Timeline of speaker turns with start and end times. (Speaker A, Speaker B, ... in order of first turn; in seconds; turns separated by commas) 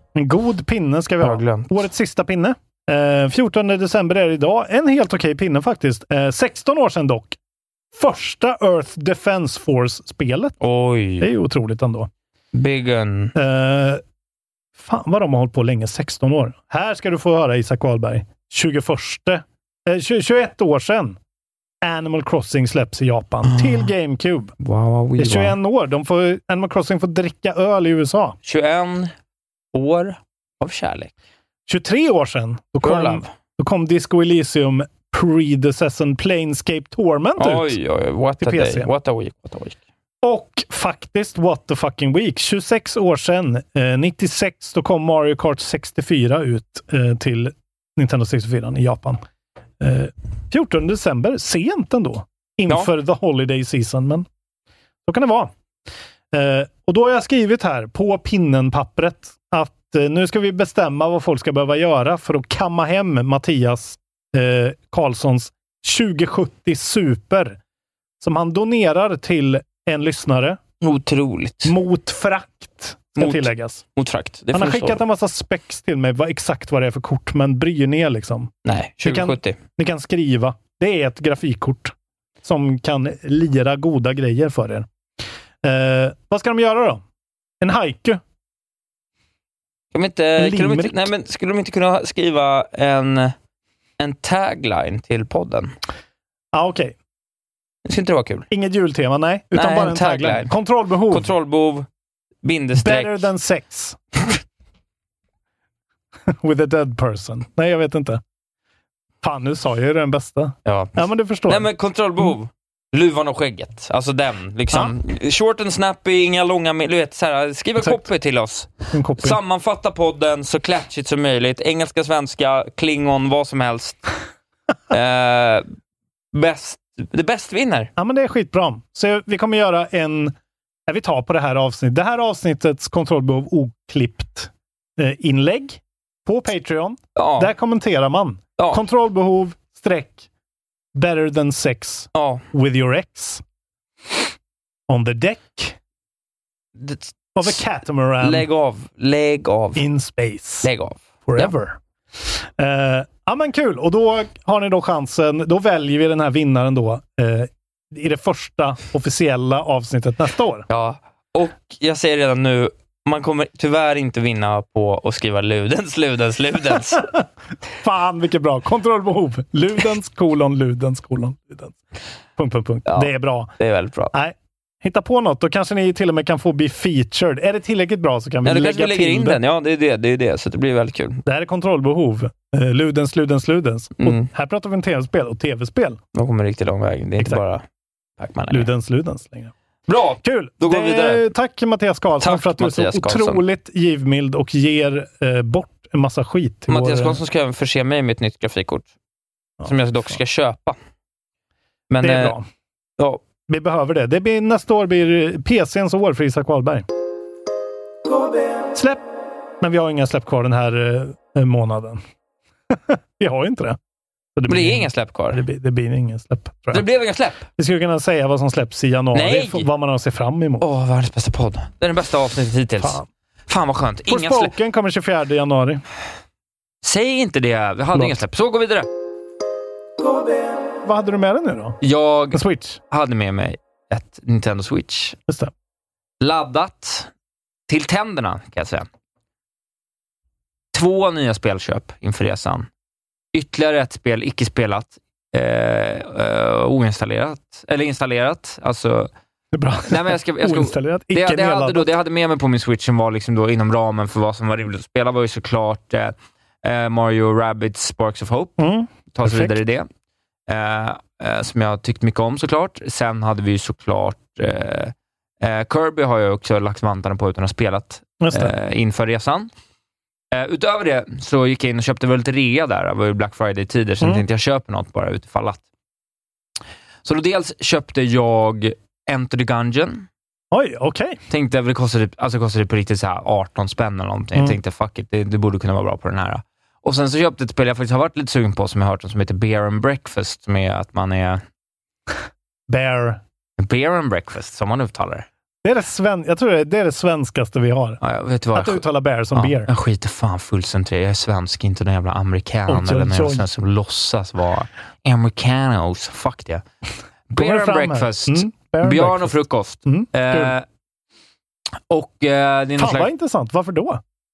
Speaker A: 0.1-7.4, Speaker B: 1.2-1.8, Speaker A: 7.9-10.6, Speaker B: 10.6-11.3, Speaker A: 11.2-12.1, Speaker B: 12.5-13.3, Speaker A: 13.3-14.0, Speaker A: 14.8-21.2, Speaker A: 21.8-24.6, Speaker B: 23.4-23.9, Speaker B: 24.6-25.6, Speaker A: 25.2-28.4, Speaker B: 28.4-29.1, Speaker B: 29.7-31.1, Speaker A: 31.7-37.8, Speaker B: 32.8-33.3, Speaker B: 37.4-39.8, Speaker A: 38.4-38.9, Speaker A: 40.2-49.2, Speaker A: 49.8-54.3, Speaker A: 55.1-55.5, Speaker A: 56.3-67.6, Speaker A: 68.2-70.6, Speaker B: 70.8-71.8, Speaker A: 71.6-73.8, Speaker B: 73.2-75.0, Speaker A: 74.5-84.9, Speaker B: 78.7-79.6, Speaker A: 85.6-87.0, Speaker A: 87.6-88.2, Speaker B: 89.9-93.3, Speaker A: 90.4-91.1, Speaker B: 94.0-95.7, Speaker A: 96.5-97.0, Speaker B: 97.8-98.5, Speaker A: 98.5-101.3, Speaker B: 99.5-100.5, Speaker B: 101.1-101.9, Speaker B: 102.4-103.3, Speaker A: 102.8-104.0, Speaker A: 106.3-108.2, Speaker A: 109.2-111.7, Speaker B: 110.7-124.0, Speaker A: 117.8-118.1, Speaker A: 118.9-119.4, Speaker B: 124.9-125.7, Speaker B: 126.3-127.9, Speaker A: 128.0-130.3, Speaker A: 130.9-140.2, Speaker B: 137.2-137.5, Speaker A: 140.9-143.4, Speaker B: 142.1-142.4, Speaker A: 144.9-145.8, Speaker B: 146.8-147.6, Speaker A: 147.4-148.5, Speaker B: 148.2-149.9, Speaker A: 149.8-150.7, Speaker B: 150.6-151.5, Speaker A: 151.3-151.8, Speaker A: 152.6-160.7, Speaker B: 160.7-167.1, Speaker A: 167.8-171.8, Speaker A: 172.4-173.5, Speaker B: 172.9-174.2, Speaker A: 174.1-179.4, Speaker B: 178.4-181.2, Speaker A: 181.3-186.0, Speaker B: 184.0-184.3, Speaker B: 186.1-187.6, Speaker B: 188.2-188.7, Speaker A: 188.5-189.5, Speaker B: 189.9-191.3, Speaker A: 190.2-197.2, Speaker B: 192.2-193.4, Speaker B: 196.7-198.9, Speaker A: 199.6-200.2, Speaker B: 199.6-200.8, Speaker B: 201.9-202.3, Speaker A: 202.0-202.5, Speaker A: 203.5-206.9, Speaker A: 208.7-209.1, Speaker A: 209.6-212.0, Speaker A: 212.7-213.8, Speaker A: 214.4-216.9, Speaker B: 214.5-215.4, Speaker B: 216.7-217.5, Speaker A: 217.6-220.7, Speaker B: 219.1-219.7, Speaker B: 220.6-224.5, Speaker A: 222.8-223.1, Speaker A: 224.1-225.8, Speaker B: 226.8-228.9, Speaker A: 227.9-228.2, Speaker A: 230.8-231.8, Speaker B: 231.8-235.2, Speaker A: 232.3-232.8, Speaker B: 236.2-237.1, Speaker B: 237.7-238.9, Speaker B: 240.7-242.7, Speaker B: 243.3-249.1, Speaker A: 249.5-251.9, Speaker B: 249.9-258.6, Speaker A: 258.6-259.6, Speaker B: 259.1-259.9, Speaker B: 260.5-269.5, Speaker A: 268.2-268.5, Speaker B: 270.3-275.6, Speaker B: 277.1-280.1, Speaker A: 280.5-281.2, Speaker B: 281.3-291.4, Speaker A: 292.7-293.2, Speaker B: 293.6-295.3, Speaker A: 295.6-298.0, Speaker B: 298.0-298.8, Speaker A: 298.5-299.7, Speaker B: 299.3-306.6, Speaker A: 302.7-303.5, Speaker B: 307.3-310.6, Speaker A: 307.3-310.6, Speaker B: 311.9-313.1, Speaker A: 312.8-314.0